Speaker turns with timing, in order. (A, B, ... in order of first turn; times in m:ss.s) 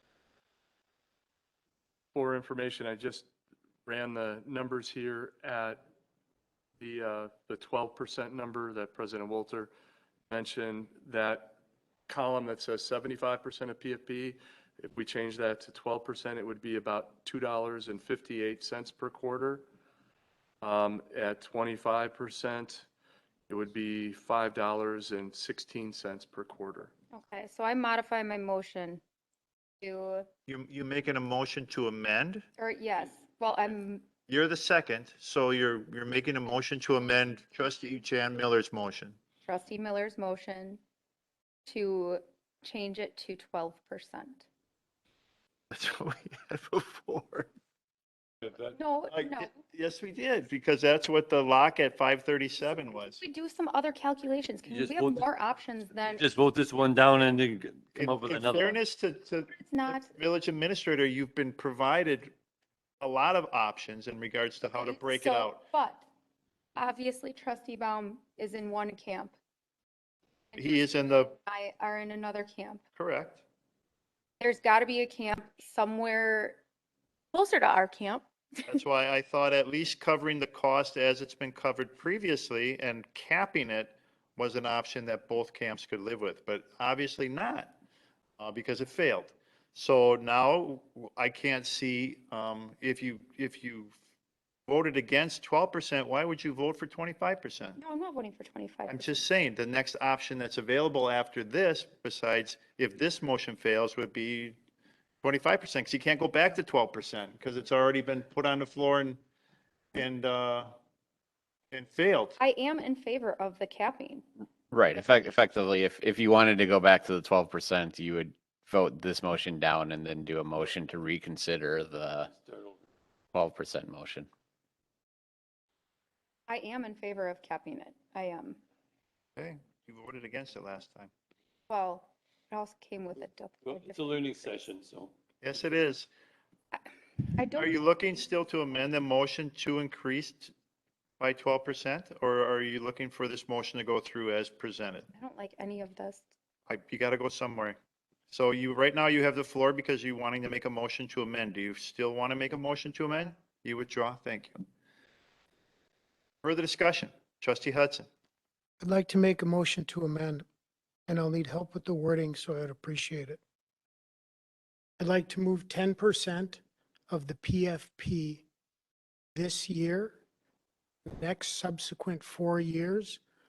0:02.1-0:03.2 A
0:03.8-0:05.8 A
0:06.8-0:09.7 A
0:10.3-0:11.6 A
0:12.1-0:19.6 A
0:20.6-0:22.8 A
0:23.5-0:26.9 A
0:27.1-0:29.0 B
0:29.8-0:30.3 B
0:30.5-0:32.4 C
0:32.6-0:34.0 B
0:34.3-0:39.2 C
0:39.4-0:40.8 B
0:41.6-0:44.4 B
0:45.7-0:47.5 C
0:48.6-0:49.6 B
0:49.1-0:53.2 C
0:53.1-0:56.2 B
0:54.7-0:55.2 D
0:56.1-0:58.8 D
0:58.0-1:02.3 C
0:59.5-1:00.1 B
1:03.0-1:05.6 C
1:04.7-1:06.0 B
1:06.8-1:09.4 B
1:10.5-1:12.8 B
1:10.6-1:11.3 C
1:13.0-1:13.4 C
1:14.4-1:16.6 B
1:17.3-1:18.6 B
1:18.6-1:27.7 C
1:28.4-1:33.9 C
1:34.7-1:37.8 C
1:37.8-1:39.2 B
1:38.9-1:44.6 C
1:45.2-1:49.2 C
1:49.9-1:50.7 C
1:51.7-1:52.4 C
1:52.4-1:54.2 B
1:54.7-2:02.3 E
2:02.3-2:02.8 D
2:03.3-2:04.3 E
2:06.5-2:08.6 B
2:09.4-2:11.1 C
2:11.7-2:14.6 B
2:13.6-2:15.1 D
2:15.4-2:16.1 C
2:16.7-2:17.8 B
2:17.5-2:20.5 C
2:21.2-2:25.1 C
2:25.1-2:26.3 B
2:26.7-2:27.8 C
2:28.3-2:34.6 C
2:36.4-2:38.1 C
2:38.8-2:40.4 F
2:41.1-2:43.4 F
2:45.0-2:46.6 F
2:47.1-2:48.4 F
2:49.4-2:50.1 F
2:51.1-2:53.2 F